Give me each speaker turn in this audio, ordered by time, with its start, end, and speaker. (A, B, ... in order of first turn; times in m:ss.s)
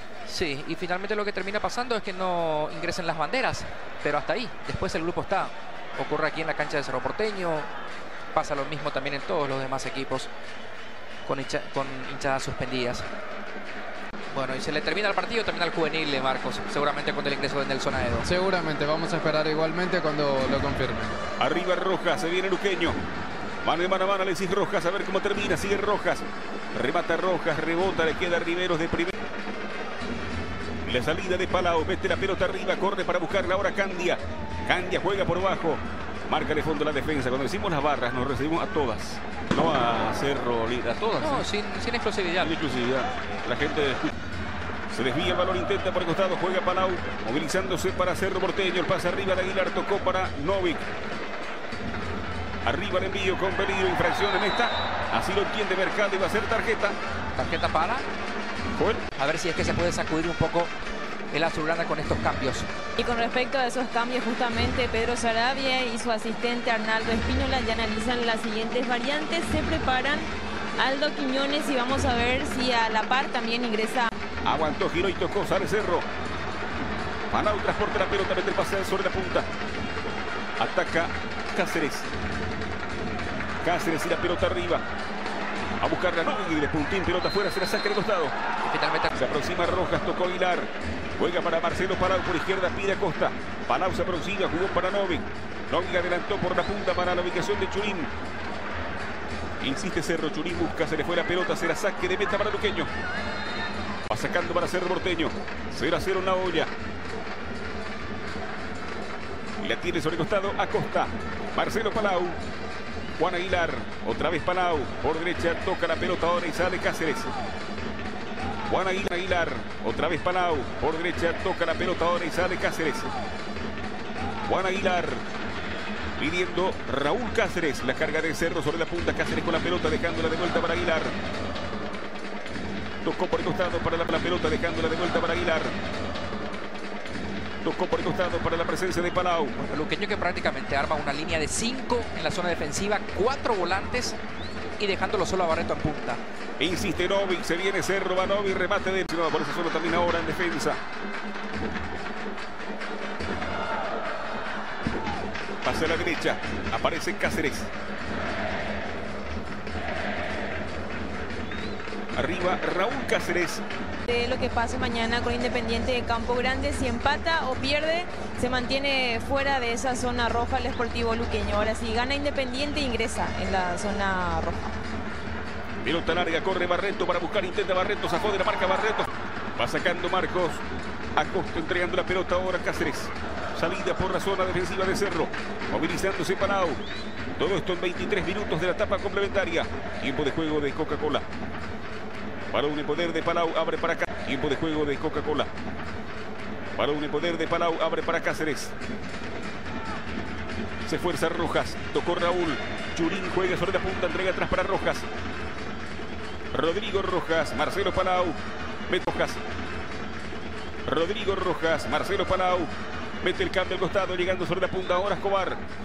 0:00.3-0:07.7 A
0:08.3-0:10.3 A
0:11.3-0:13.1 A
0:14.3-0:18.3 A
0:18.2-0:21.2 B
0:21.4-0:23.0 C
0:23.6-0:29.1 C
0:30.8-0:41.5 C
0:41.2-0:42.5 A
0:42.4-0:44.1 C
0:44.9-0:50.8 C
0:52.6-0:57.0 C
0:57.4-0:58.1 A
0:58.8-0:59.0 C
0:59.2-1:00.7 A
1:01.3-1:02.7 A
1:03.0-1:14.1 D
1:14.4-1:16.1 C
1:17.3-1:19.5 C
1:20.6-1:22.1 C
1:23.6-1:24.8 C
1:25.8-1:28.3 C
1:28.6-1:29.1 A
1:29.2-1:38.1 C
1:39.6-1:42.9 C
1:44.1-1:46.7 C
1:49.6-1:52.4 C
1:53.2-1:57.3 C
1:58.7-2:03.1 C
2:04.5-2:05.3 C
2:06.2-2:11.2 C
2:13.0-2:15.8 C
2:17.6-2:19.6 C
2:19.6-2:24.2 A
2:24.8-2:26.2 A
2:26.6-2:30.8 C
2:35.6-2:37.7 C
2:42.2-2:43.6 C
2:44.1-2:54.8 D
2:55.8-3:00.6 C
3:01.2-3:06.8 C
3:07.4-3:11.3 C
3:12.5-3:15.5 C
3:16.8-3:18.7 C
3:20.8-3:25.1 C
3:26.5-3:29.4 C
3:30.9-3:35.6 C